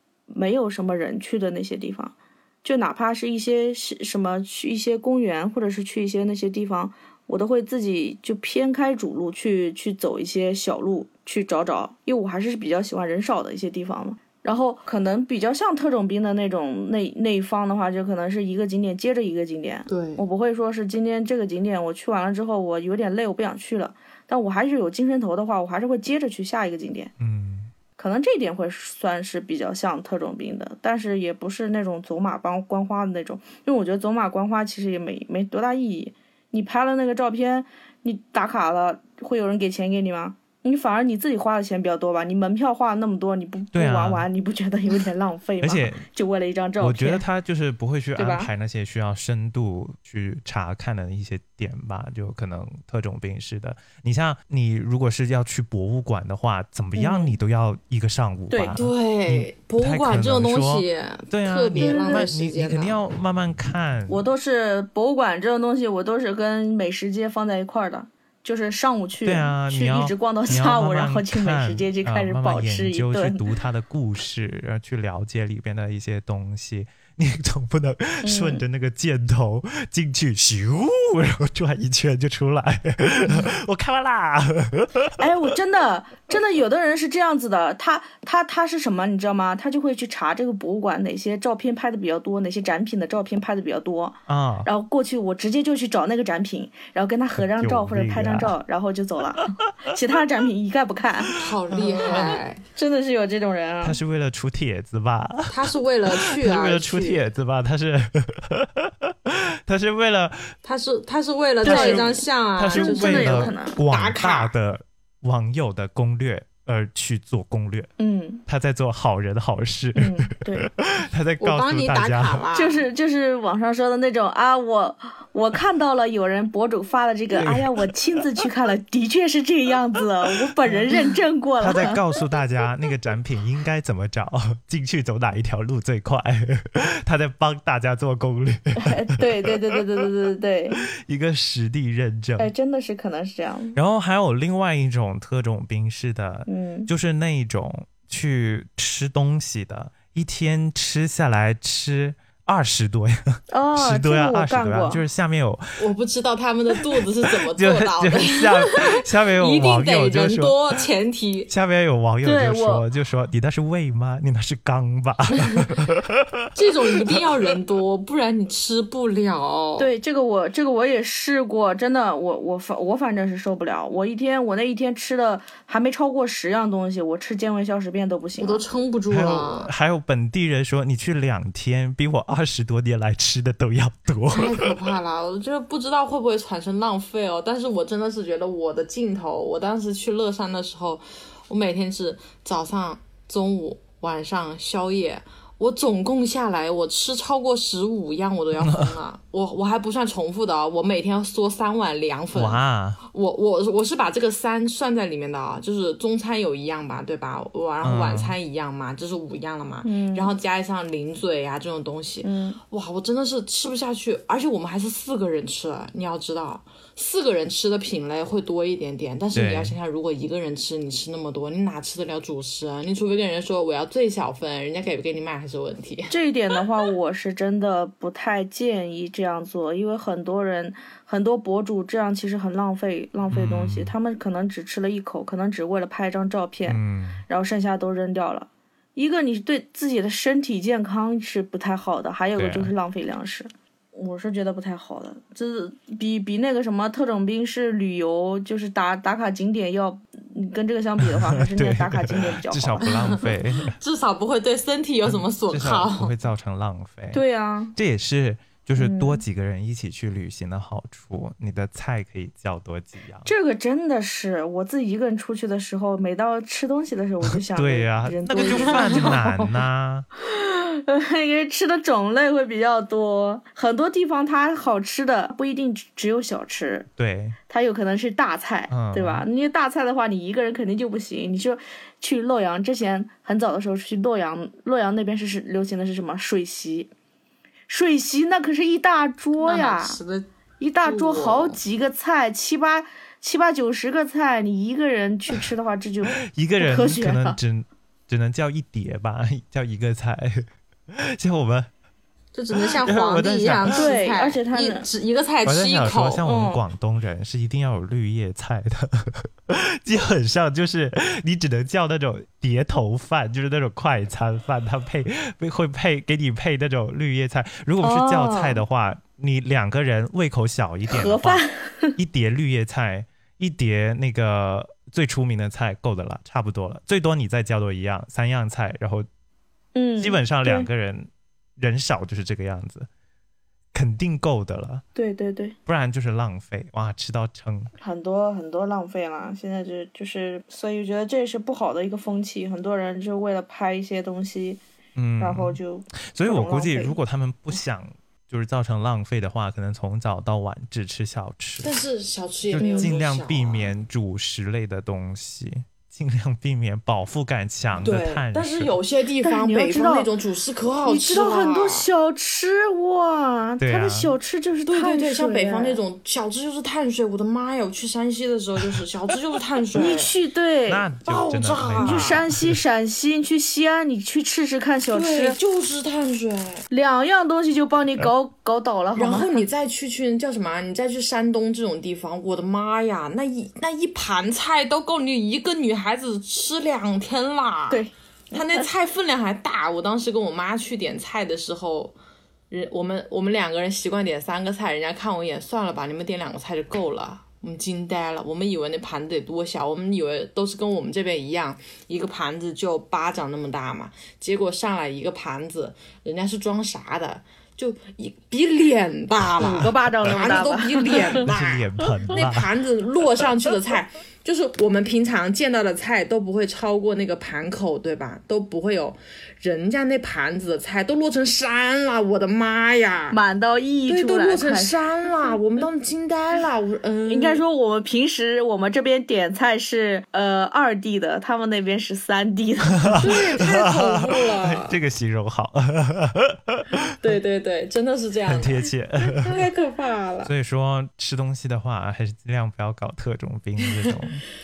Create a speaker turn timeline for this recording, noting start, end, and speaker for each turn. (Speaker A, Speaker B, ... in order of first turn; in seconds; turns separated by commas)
Speaker A: 0.3-27.1, Speaker B: 19.9-20.2, Speaker C: 27.2-27.7, Speaker A: 28.0-47.2, Speaker C: 43.7-44.3, Speaker C: 45.6-46.0, Speaker C: 46.8-64.2, Speaker A: 48.1-48.5, Speaker A: 57.0-57.4, Speaker A: 58.5-58.8, Speaker B: 58.8-63.0, Speaker A: 61.7-62.3, Speaker A: 64.1-73.4, Speaker C: 69.2-85.2, Speaker A: 78.2-78.6, Speaker A: 85.2-101.4, Speaker C: 94.3-94.7, Speaker C: 97.3-98.5, Speaker B: 101.3-102.6, Speaker C: 101.7-102.4, Speaker A: 102.0-104.0, Speaker C: 103.8-110.5, Speaker B: 105.5-107.2, Speaker B: 110.6-114.5, Speaker C: 111.6-117.9, Speaker A: 111.6-112.2, Speaker A: 112.7-113.8, Speaker A: 118.0-118.4, Speaker C: 118.5-122.4, Speaker A: 119.9-120.7, Speaker B: 121.4-122.8, Speaker A: 122.5-132.0, Speaker C: 127.3-128.3, Speaker C: 131.6-139.5, Speaker A: 138.8-140.8, Speaker C: 141.0-142.5, Speaker A: 142.4-143.8, Speaker C: 143.7-155.8, Speaker A: 146.5-146.9, Speaker A: 153.5-155.0, Speaker B: 155.8-161.5, Speaker C: 157.5-160.6, Speaker C: 161.5-166.5, Speaker A: 162.2-162.9, Speaker B: 165.4-165.7, Speaker B: 166.5-169.9, Speaker A: 169.8-178.6, Speaker B: 178.4-179.7, Speaker C: 179.1-184.9, Speaker B: 184.3-226.1, Speaker C: 198.6-198.9, Speaker C: 202.3-203.0, Speaker C: 207.8-208.3, Speaker A: 209.8-210.3, Speaker A: 212.2-212.6, Speaker C: 219.3-219.7, Speaker A: 226.1-252.9, Speaker C: 233.3-233.9, Speaker C: 236.7-237.2, Speaker C: 242.3-242.7, Speaker C: 251.0-253.8, Speaker B: 252.8-256.1, Speaker C: 255.0-257.2, Speaker A: 257.1-257.8, Speaker C: 257.8-263.3, Speaker A: 258.8-259.2, Speaker A: 263.2-269.5, Speaker C: 267.3-270.1, Speaker B: 268.4-269.1, Speaker A: 270.2-276.9, Speaker C: 277.0-277.4, Speaker A: 277.5-286.9, Speaker C: 278.7-279.2, Speaker A: 287.7-290.0, Speaker B: 289.4-290.3, Speaker A: 290.6-297.4, Speaker B: 290.8-291.6, Speaker C: 296.2-301.7, Speaker B: 302.3-306.2, Speaker C: 302.6-303.8, Speaker A: 303.7-304.8, Speaker C: 305.4-321.4, Speaker A: 306.2-306.6, Speaker A: 317.8-318.6, Speaker A: 320.9-321.9, Speaker C: 322.0-329.1, Speaker A: 329.7-330.7, Speaker C: 330.0-332.9, Speaker C: 333.7-334.8, Speaker A: 334.9-335.6, Speaker C: 335.7-337.7, Speaker A: 337.8-344.6, Speaker C: 344.9-345.6, Speaker A: 345.2-347.0, Speaker C: 346.1-351.7, Speaker B: 351.6-353.7, Speaker C: 352.5-358.8, Speaker A: 352.6-352.9, Speaker B: 357.8-361.9, Speaker A: 359.2-360.1, Speaker A: 360.8-365.8, Speaker C: 363.6-364.1, Speaker B: 364.7-370.1, Speaker A: 369.8-370.9, Speaker C: 370.7-372.5, Speaker B: 371.0-372.2, Speaker A: 371.8-375.4, Speaker B: 374.9-376.6, Speaker A: 376.7-379.4, Speaker B: 378.9-391.9, Speaker A: 387.7-388.7, Speaker B: 392.5-423.2, Speaker A: 409.4-411.2, Speaker C: 411.1-412.5, Speaker A: 423.1-424.8, Speaker B: 423.9-427.4, Speaker A: 427.1-433.1, Speaker C: 432.9-436.8, Speaker B: 433.0-434.8, Speaker B: 437.0-440.3, Speaker C: 438.3-439.4, Speaker C: 440.2-444.2